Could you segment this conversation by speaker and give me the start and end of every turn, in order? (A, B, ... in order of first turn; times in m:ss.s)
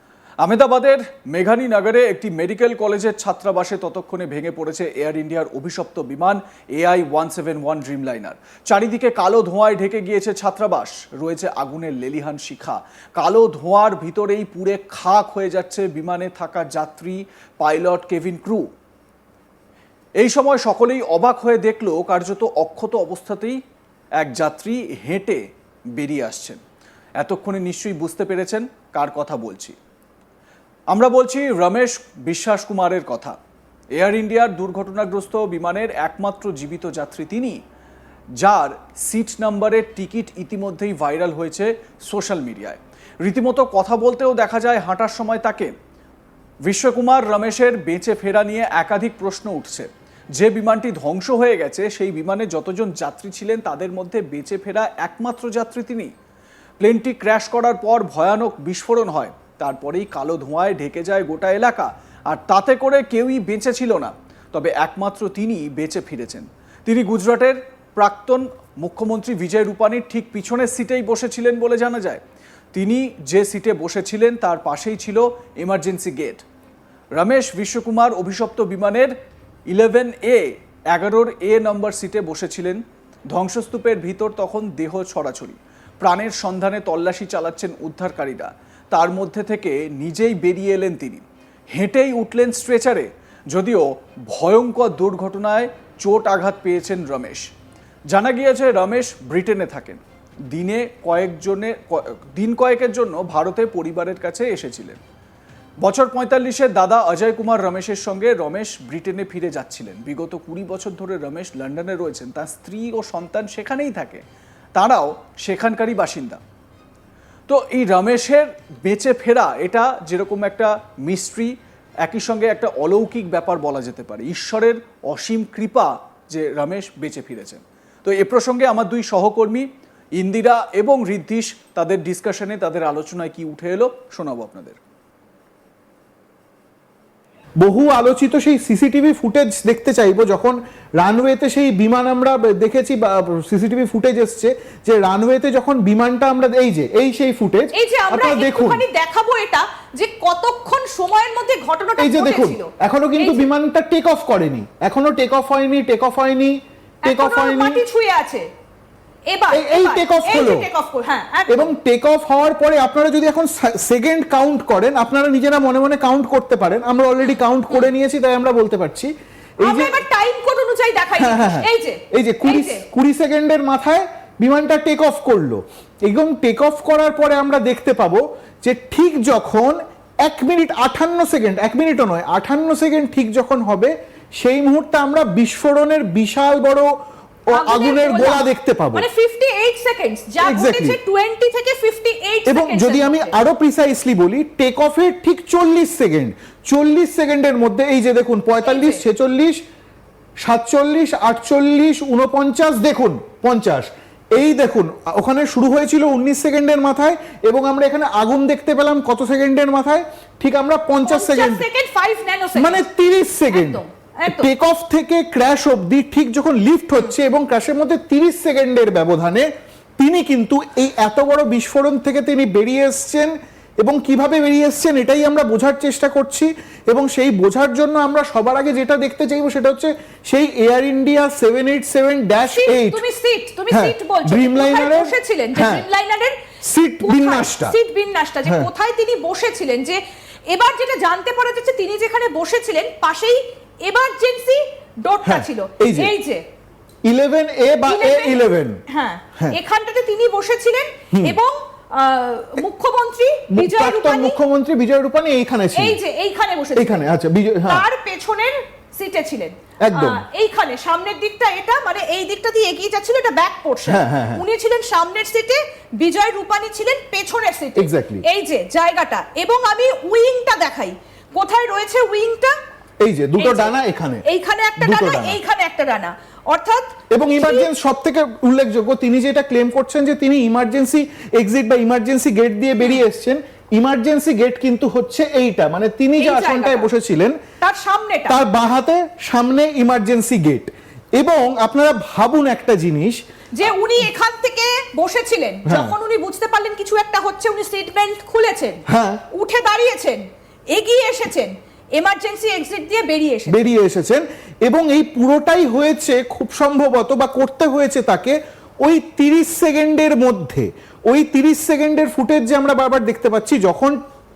0:00.4-0:18.7 A
0:20.2-0:23.6 A
0:24.2-0:25.4 A
0:26.0-0:26.6 A
0:27.2-0:29.8 A
0:30.9-0:33.4 A
0:34.0-0:37.6 A
0:38.4-0:45.7 A
0:46.6-0:56.1 A
0:56.8-1:12.2 A
1:12.7-1:16.4 A
1:17.2-1:19.1 A
1:19.7-1:37.5 A
1:38.1-1:45.0 A
1:45.8-1:54.2 A
1:54.8-1:56.4 A
1:57.5-2:14.8 A
2:17.6-2:28.8 B
2:27.7-2:33.5 C
2:32.0-2:37.8 B
2:37.0-2:38.4 C
2:39.3-2:41.8 C
2:39.5-2:40.7 B
2:41.5-2:50.0 B
2:49.6-2:52.8 C
2:51.2-3:06.9 B
3:07.5-3:09.1 B
3:07.5-3:13.4 C
3:10.4-3:11.0 B
3:12.4-3:19.6 B
3:18.6-3:19.0 C
3:20.4-3:31.6 B
3:31.0-3:32.8 C
3:32.6-3:39.5 B
3:33.5-3:34.5 C
3:40.0-3:53.0 B
3:52.5-3:56.4 C
3:53.7-3:55.8 B
3:56.6-3:57.8 B
3:57.0-4:06.4 C
4:05.2-4:06.1 B
4:07.0-4:08.8 B
4:07.9-4:14.4 C
4:11.1-4:11.4 B
4:13.5-4:16.0 B
4:15.8-4:17.1 C
4:16.8-4:17.8 B
4:17.7-4:32.5 C
4:19.8-4:20.2 B
4:23.9-4:24.4 B
4:27.8-4:28.2 B
4:33.0-4:34.2 B
4:33.4-4:37.7 C
4:34.8-4:35.4 B
4:37.1-4:47.4 B
4:46.2-4:46.9 C
4:47.6-4:48.4 C
4:48.3-4:53.2 B
4:53.6-5:03.6 C
4:55.6-4:55.9 B
4:58.9-4:59.2 B
5:03.5-5:14.0 B